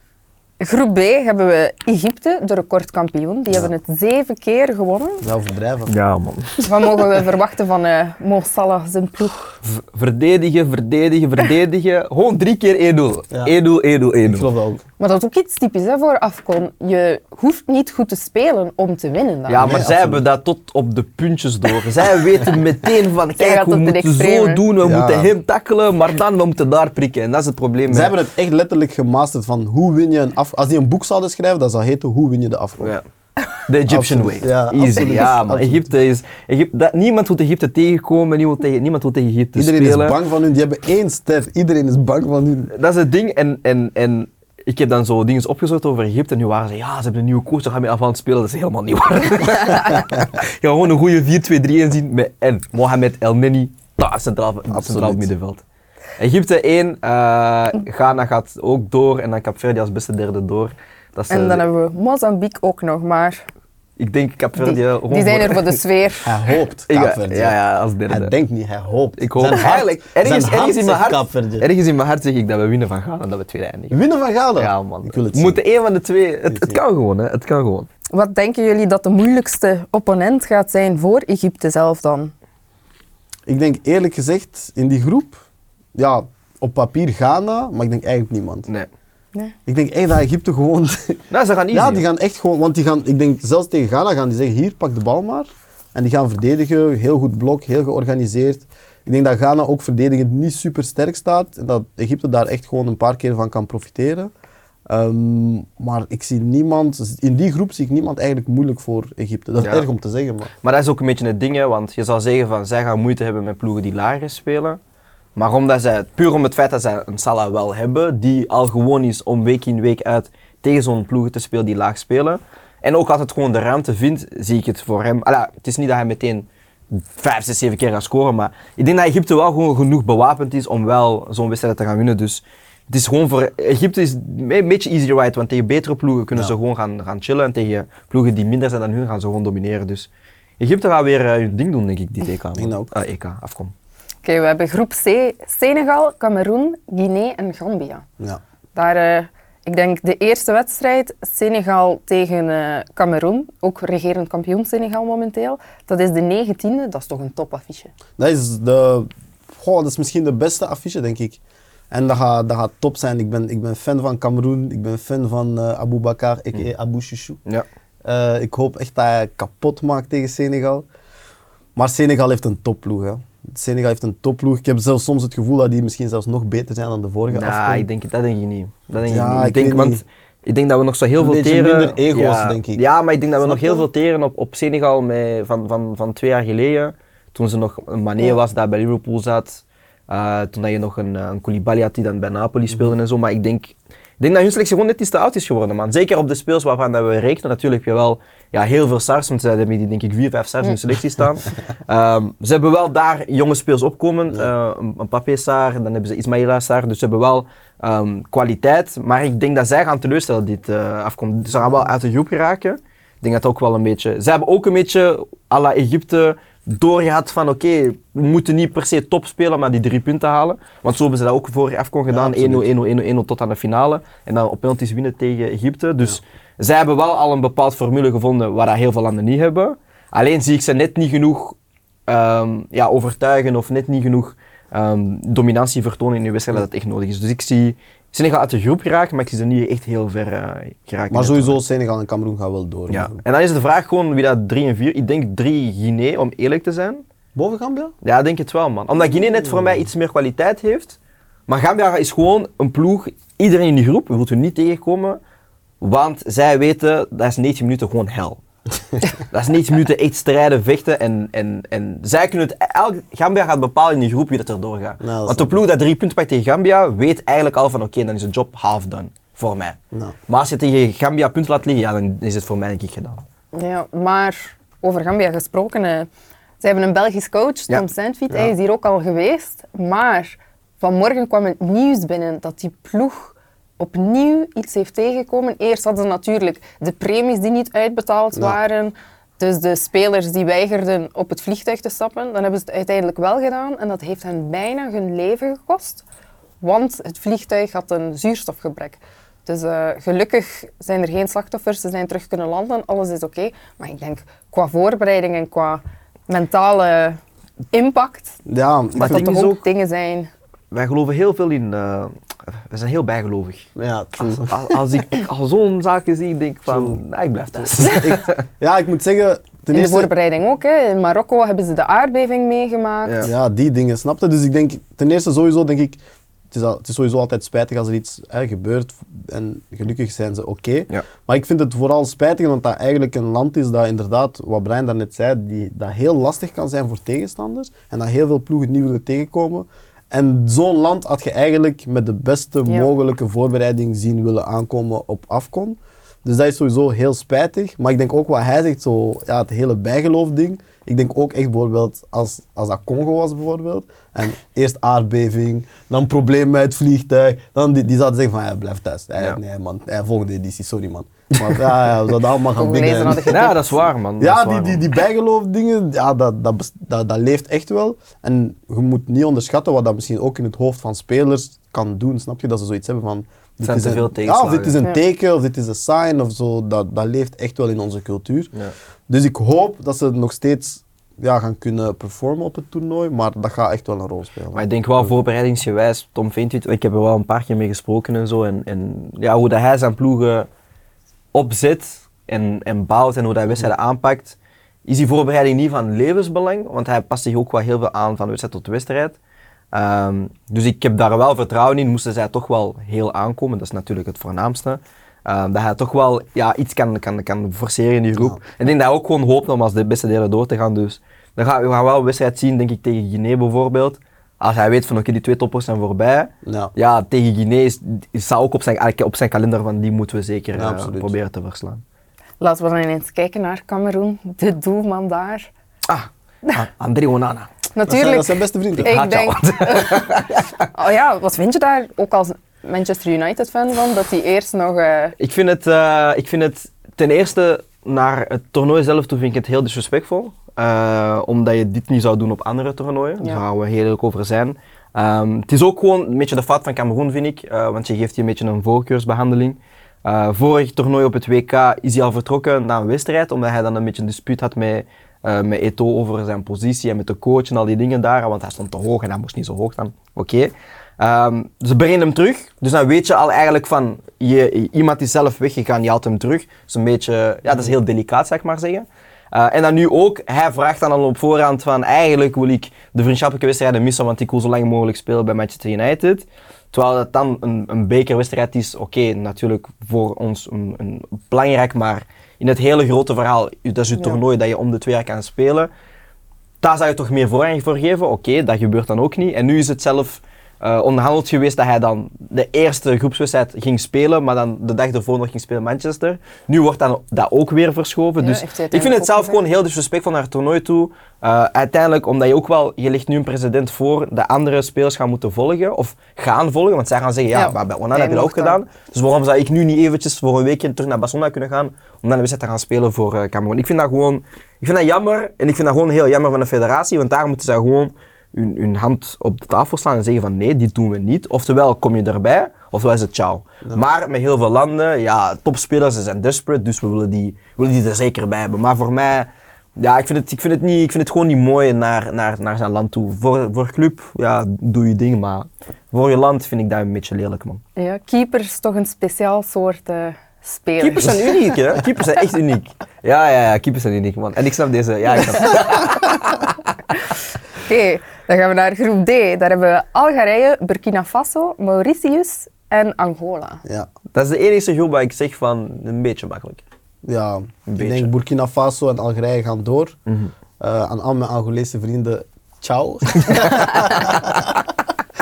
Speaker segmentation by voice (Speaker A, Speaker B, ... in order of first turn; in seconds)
Speaker A: 0.6-5.2, 6.6-9.6, 15.0-19.7, 23.4-24.6, 61.3-63.4, 64.6-66.5, 78.1-82.3, 144.2-148.0, 148.7-157.9, 273.5-276.1, 276.6-296.0, 296.6-307.2, 307.7-308.4, 309.0-310.3, 319.7-323.2, 362.6-363.7, 422.4-425.5, 427.8-430.2, 430.7-435.1, 498.2-499.4, 507.3-508.6, 537.8-541.5, 545.4-545.8, 547.6-553.6
Speaker B: 5.2-5.9, 14.2-14.8, 19.6-20.2, 24.8-25.3, 27.9-32.9, 33.9-35.9, 39.5-42.7, 54.7-55.3, 66.2-67.5, 68.1-71.7, 73.9-75.6, 76.5-76.8, 83.5-85.4, 85.9-88.7, 89.7-104.3, 104.9-110.5, 142.5-142.9, 158.2-161.4, 161.9-167.4, 168.0-170.8, 171.8-177.8, 179.0-180.0, 181.2-182.8, 183.4-183.8, 222.1-222.7, 241.1-243.2, 247.3-247.9, 265.0-265.6, 308.4-309.6, 313.8-314.6, 316.7-317.0, 317.8-320.1, 323.2-326.0, 326.5-363.5, 364.2-378.5, 379.1-385.1, 416.4-416.7, 420.5-421.1, 427.9-428.9, 557.0-560.0, 560.6-564.6
Speaker C: 5.9-7.1, 9.6-14.5, 19.5-28.1, 33.6-40.2, 42.7-55.6, 56.2-61.6, 64.0-65.8, 66.9-68.3, 69.2-73.9, 74.6-77.9, 91.3-92.0, 109.6-109.9, 110.6-114.8, 115.3-143.7, 177.3-241.6, 242.9-247.0, 248.0-251.0, 251.5-255.2, 255.8-258.4, 259.2-273.2, 308.9-309.6, 310.7-313.6, 314.2-318.4, 323.0-323.3, 363.3-364.8, 373.6-374.8, 384.5-390.5, 391.3-399.2, 399.7-421.8, 425.9-427.5, 428.8-430.7, 435.2-485.7, 486.6-537.6, 540.8-546.5, 554.1-556.6, 557.7-558.1, 563.2-564.1